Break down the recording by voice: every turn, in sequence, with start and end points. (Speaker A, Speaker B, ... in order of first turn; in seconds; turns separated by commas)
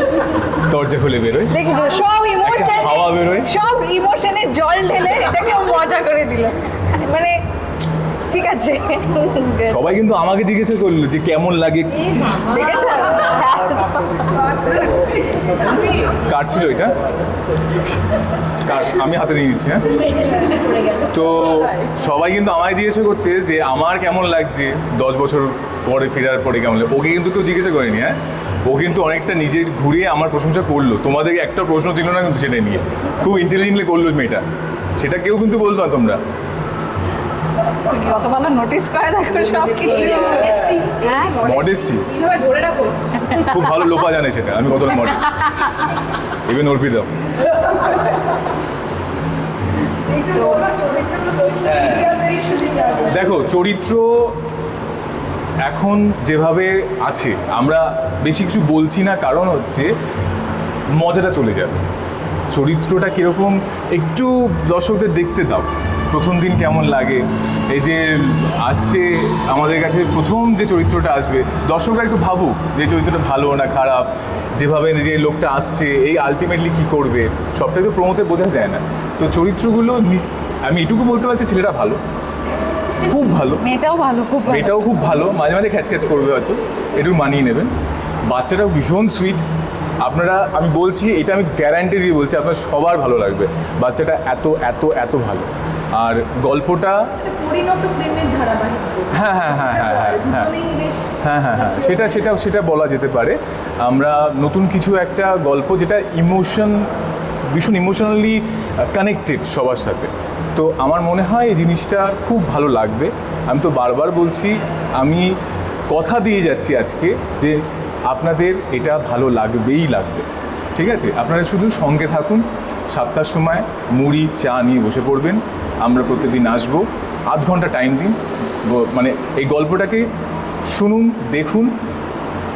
Speaker A: 0.5-1.6, Speaker B: 1.5-7.4, Speaker A: 2.4-3.5, Speaker B: 8.3-9.9, Speaker A: 9.7-12.4, Speaker B: 12.1-14.4, Speaker A: 16.1-16.9, Speaker A: 18.6-20.0, Speaker A: 21.0-34.4, Speaker A: 35.0-36.2, Speaker B: 37.8-43.5, Speaker A: 41.4-42.1, Speaker A: 43.3-45.5, Speaker A: 46.4-47.1, Speaker C: 50.0-53.0, Speaker A: 51.6-52.2, Speaker A: 53.0-54.4, Speaker A: 55.6-59.9, Speaker A: 60.9-61.8, Speaker A: 62.5-82.0, Speaker A: 83.0-83.6, Speaker B: 83.6-84.8, Speaker A: 84.5-87.7, Speaker A: 88.2-89.4, Speaker A: 90.0-97.1, Speaker C: 97.3-99.1, Speaker A: 99.1-106.9, Speaker C: 100.6-101.0, Speaker A: 107.5-115.4, Speaker A: 115.9-130.1, Speaker A: 130.7-131.7